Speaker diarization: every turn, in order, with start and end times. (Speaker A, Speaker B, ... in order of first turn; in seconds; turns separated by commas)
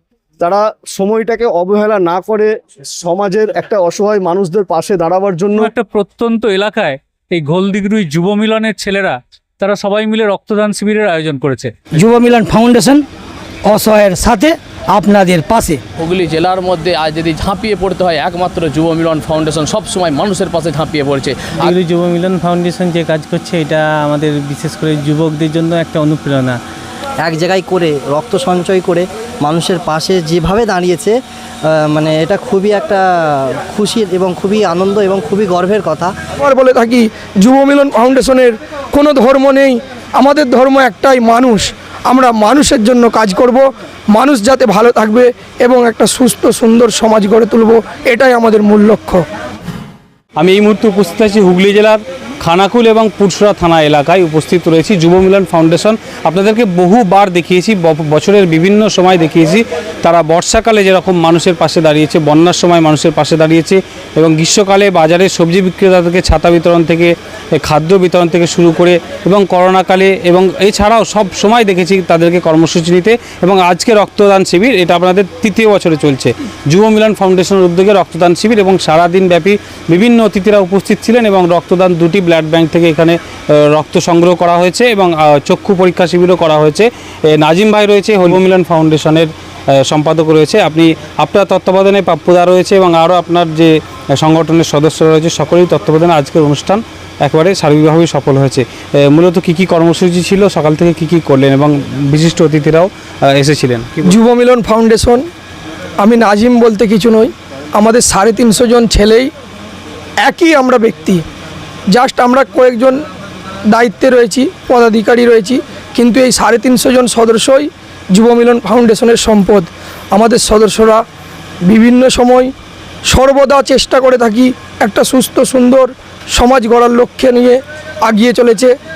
Speaker A: 0.4-5.7, Speaker B: 5.6-11.7, Speaker C: 11.9-13.0, Speaker C: 13.7-15.8, Speaker D: 16.0-21.7, Speaker E: 21.6-26.6, Speaker F: 27.2-36.1, Speaker G: 36.4-49.2, Speaker H: 50.4-89.3, Speaker H: 89.9-104.0, Speaker G: 104.1-105.2, Speaker G: 106.0-109.3, Speaker G: 110.2-111.2, Speaker G: 111.9-113.0, Speaker G: 113.7-121.0, Speaker G: 121.6-122.5, Speaker G: 123.1-128.7